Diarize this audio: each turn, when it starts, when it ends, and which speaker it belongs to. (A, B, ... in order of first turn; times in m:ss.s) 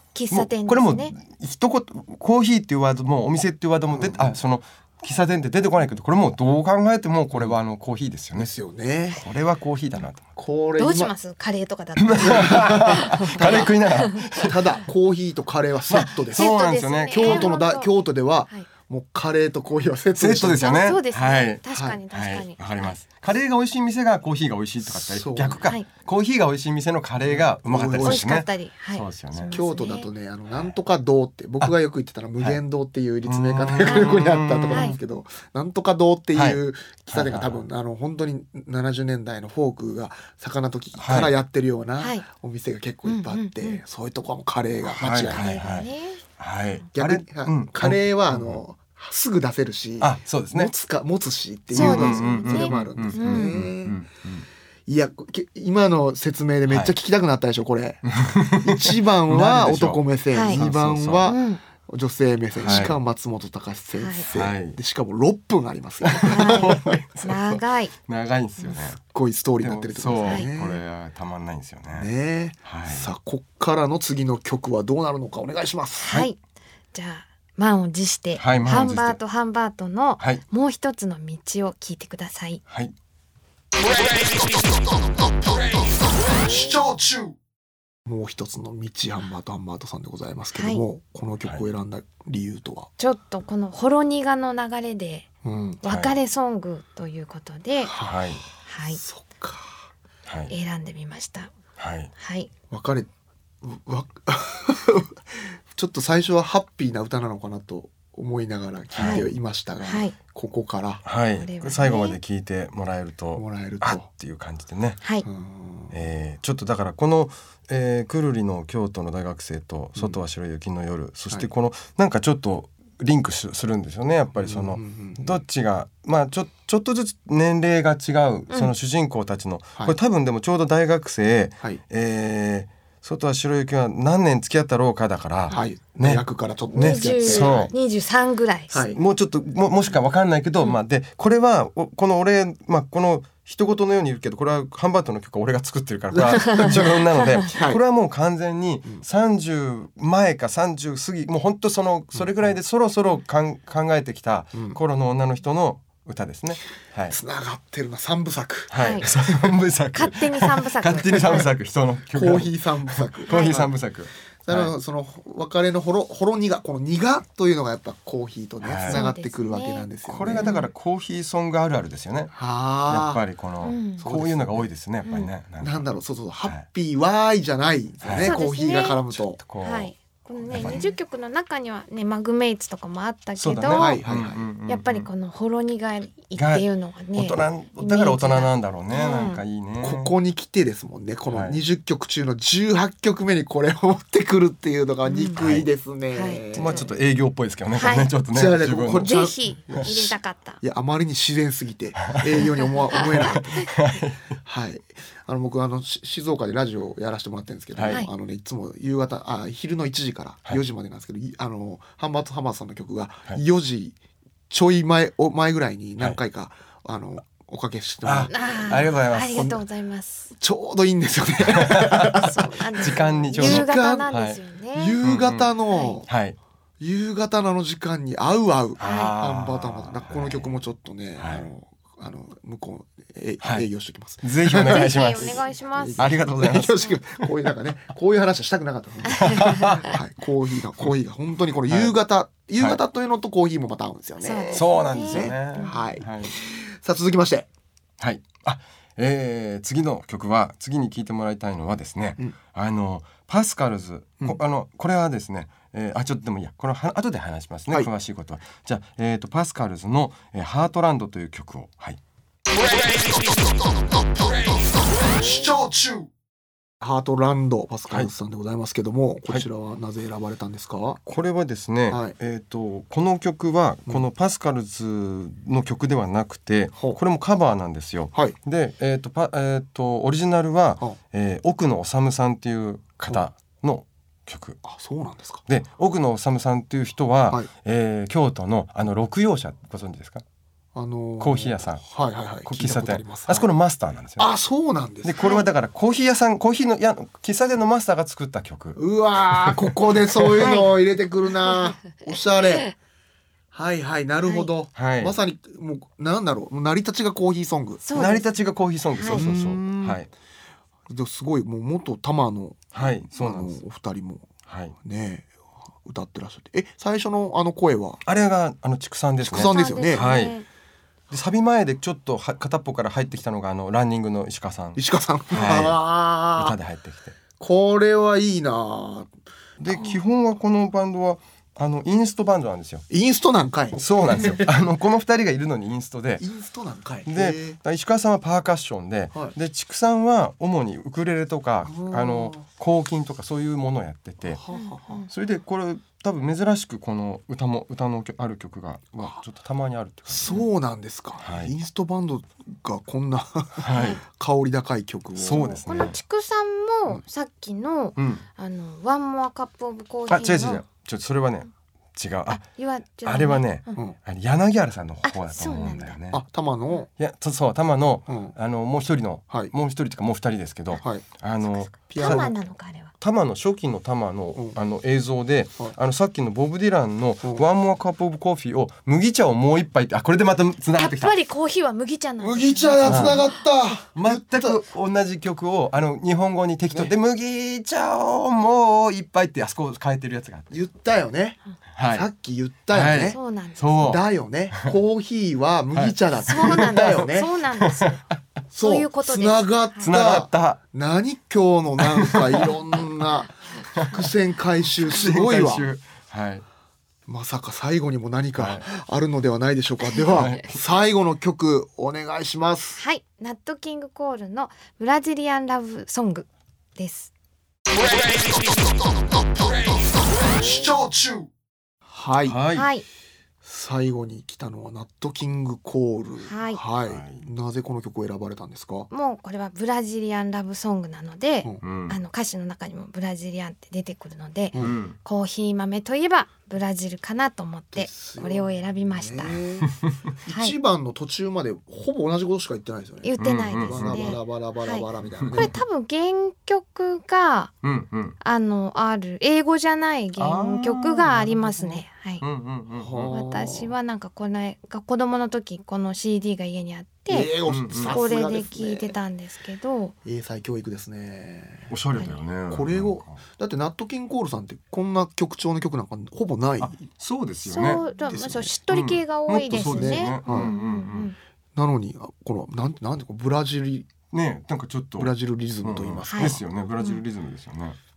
0:00.2-0:01.1 A
0:00.3-0:08.5 B
0:03.9-0:04.4 C
0:08.4-0:09.2 C
0:09.1-0:10.3 B
0:10.4-0:11.1 C
0:10.8-0:14.2 A
0:12.0-0:14.6 B
0:12.2-0:20.8 C
0:15.9-0:17.6 B
0:16.4-0:17.9 A
0:20.2-0:29.5 B
0:20.6-0:23.0 A
0:21.7-0:22.0 C
0:24.8-0:25.6 C
0:27.2-0:28.3 C
0:28.0-0:30.1 A
0:29.5-0:45.9 C
0:33.2-0:34.9 B
0:33.8-0:34.2 A
0:34.7-0:35.0 A
0:36.3-0:37.6 B
0:41.0-0:41.3 B
0:42.0-0:42.2 A
0:43.0-0:43.8 A
0:44.9-0:48.6 B
0:45.3-0:46.2 A
0:46.9-0:54.0 C
0:50.0-0:50.7 B
0:51.7-0:54.4 B
0:51.7-0:53.6 A
0:54.9-1:06.9 C
0:56.7-0:56.9 B
0:58.1-1:01.3 B
1:00.3-1:00.6 A
1:01.3-1:01.6 A
1:02.6-1:03.0 B
1:04.0-1:04.3 A
1:04.3-1:04.8 B
1:06.0-1:09.0 B
1:06.2-1:07.9 A
1:08.7-1:10.8 C
1:09.6-1:12.1 B
1:11.9-1:16.1 C
1:12.6-1:13.1 B
1:16.0-1:16.4 A
1:16.9-1:22.6 A
1:18.4-1:19.2 B
1:22.7-1:22.9 B
1:28.1-1:32.9 C
1:30.6-1:30.8 A
1:33.0-1:35.3 A
1:35.4-1:35.8 C
1:35.8-1:37.9 A
1:35.8-1:36.1 B
1:37.8-1:38.3 C
1:38.0-1:38.4 B
1:38.7-1:39.0 A
1:38.9-1:39.8 C
1:40.3-1:40.5 B
1:40.5-1:41.5 A
1:41.8-1:42.1 B
1:42.2-1:42.5 A
1:42.7-1:43.1 C
1:43.6-1:51.0 C
1:49.0-1:49.3 B
1:49.0-1:49.3 A
1:49.8-1:50.2 A
1:51.0-1:55.0 B
1:51.4-1:52.2 A
1:53.4-1:54.1 C
1:55.2-1:56.0 C
1:55.9-2:17.7 B
2:04.4-2:05.4 C
2:15.5-2:17.7 C
2:16.7-2:18.8 A
2:18.7-2:19.0 C
2:18.9-2:37.2 B
2:26.1-2:27.8 C
2:26.4-2:26.7 A
2:37.1-2:39.5 C
2:38.7-2:44.7 B
2:38.8-2:39.1 A
2:39.9-2:41.4 A
2:41.1-2:41.5 C
2:42.1-2:43.7 C
2:43.3-2:43.6 A
2:44.4-2:50.6 C
2:48.6-2:49.0 B
2:48.9-2:50.7 A
2:50.1-2:52.4 B
2:52.3-2:53.2 C
2:52.9-2:55.9 B
2:53.6-2:54.1 A
2:54.0-2:54.6 C
2:55.0-2:55.3 A
2:55.6-2:59.4 C
2:58.0-2:58.4 B
2:58.2-2:59.0 A
2:59.1-2:59.9 B
2:59.6-3:04.0 A
3:00.5-3:00.8 B
3:00.5-3:00.9 C
3:03.4-3:05.1 B
3:03.7-3:04.5 C
3:04.7-3:09.4 A
3:06.4-3:10.1 B
3:09.8-3:16.9 C
3:11.3-3:11.6 B
3:15.0-3:15.4 A
3:15.4-3:15.7 B
3:16.1-3:16.9 A
3:16.5-3:19.9 B
3:17.8-3:18.1 A
3:18.3-3:23.8 C
3:19.0-3:20.6 A
3:22.0-3:22.4 B
3:22.6-3:23.0 A
3:23.1-3:24.2 B
3:24.3-3:34.0 C
3:27.8-3:28.0 B
3:34.5-3:38.6 C
3:38.0-3:39.6 B
3:38.3-3:40.3 A
3:39.4-3:39.6 C
3:40.4-3:44.2 C
3:41.4-3:44.4 B
3:42.1-3:45.0 A
3:44.7-3:46.1 C
3:45.0-3:45.5 B
3:45.7-3:46.0 A
3:46.1-3:46.4 B
3:46.8-4:07.5 C
3:48.8-3:50.5 B
3:48.8-3:49.1 A
3:51.2-3:51.5 B
3:53.4-3:53.7 B
3:54.2-3:55.4 B
3:54.6-3:56.1 A
3:56.0-3:57.3 B
3:59.1-3:59.9 A
3:59.2-3:59.9 B
4:01.7-4:02.0 B
4:04.2-4:05.8 A
4:04.5-4:06.3 B
4:08.0-4:22.0 B
4:25.2-4:25.7 C
4:26.8-4:31.0 C
4:31.1-4:44.6 B
4:31.9-4:32.2 C
4:44.6-4:45.4 C
4:45.5-4:50.2 B
4:50.7-4:53.5 C
4:51.2-4:51.9 B
4:52.4-4:54.3 B
4:54.2-4:55.2 C
4:55.0-5:00.4 B
4:55.2-4:55.5 A
4:58.8-5:02.7 C
5:00.4-5:00.7 A
5:03.5-5:08.1 C
5:04.3-5:04.5 A
5:04.8-5:05.2 B
5:07.8-5:08.3 A
5:08.0-5:10.1 B
5:08.9-5:09.2 A
5:09.1-5:10.0 C
5:10.9-5:14.3 C
5:12.7-5:13.6 B
5:14.5-5:14.8 B
5:14.8-5:15.3 C
5:15.8-5:18.0 C
5:18.1-5:20.4 B
5:19.2-5:20.0 C
5:19.3-5:20.5 A
5:21.1-5:27.2 B
5:24.8-5:26.6 C
5:27.4-5:29.1 C
5:29.6-5:32.8 B
5:32.9-5:34.5 C
5:33.7-5:36.3 B
5:36.2-5:37.6 C
5:37.1-5:44.4 B
5:41.7-5:42.4 C
5:44.2-5:45.0 C
5:44.5-5:45.1 A
5:45.1-5:50.5 B
5:48.9-5:49.2 C
5:50.1-5:55.9 C
5:51.2-5:51.5 B
5:53.6-5:54.0 B
5:53.7-5:54.0 A
5:55.2-5:56.0 B
5:55.3-6:00.6 A
5:58.0-5:58.2 B
6:00.1-6:02.4 B
6:02.3-6:03.8 A
6:03.0-6:06.2 B
6:05.0-6:06.0 A
6:06.1-6:06.9 C
6:07.0-6:12.3 B
6:08.1-6:08.4 C
6:10.8-6:11.1 C
6:11.5-6:12.9 A
6:11.9-6:12.3 C
6:13.0-6:21.1 B
6:20.8-6:23.3 A
6:22.2-6:24.6 C
6:22.8-6:23.2 B
6:24.0-6:30.5 B
6:30.5-6:31.4 C
6:31.8-6:32.1 B
6:31.9-6:33.2 C
6:32.7-6:34.0 B
6:33.1-6:33.6 A
6:33.8-6:37.3 C
6:35.7-6:37.1 B
6:36.3-6:38.0 A
6:37.6-6:37.9 B
6:38.5-6:45.7 C
6:38.6-6:39.9 A
6:39.8-6:40.6 B
6:41.8-6:42.5 B
6:43.8-6:44.1 B
6:44.8-6:46.4 B
6:47.1-6:52.8 C
6:48.4-6:48.7 B
6:50.1-6:50.6 B
6:52.8-6:57.1 A
7:00.4-7:01.2 C
7:01.9-7:02.4 C
7:02.2-7:02.7 B
7:02.5-7:02.8 A
7:03.4-7:08.9 C
7:06.3-7:06.6 A
7:06.9-7:07.3 B
7:08.9-7:19.4 A
7:11.6-7:12.0 B
7:14.6-7:15.0 B
7:17.7-7:25.6 C
7:20.3-7:20.6 A
7:23.0-7:27.5 A
7:23.2-7:24.2 B
7:25.2-7:25.5 B
7:27.6-7:28.2 B
7:28.2-7:32.2 A
7:30.2-7:33.2 B
7:32.8-7:33.7 C
7:33.1-7:37.3 A
7:37.1-7:38.9 C
7:37.5-7:38.0 B
7:37.8-7:39.9 A
7:40.0-7:41.7 C
7:41.7-7:43.2 B
7:42.5-7:46.8 C
7:46.6-7:47.8 B
7:47.5-7:51.2 A
7:48.0-7:48.5 C
7:48.7-7:51.1 B
7:49.5-7:50.5 C
7:51.6-7:53.9 C
7:54.1-7:57.8 B
7:55.0-7:56.4 C
7:56.1-7:57.0 A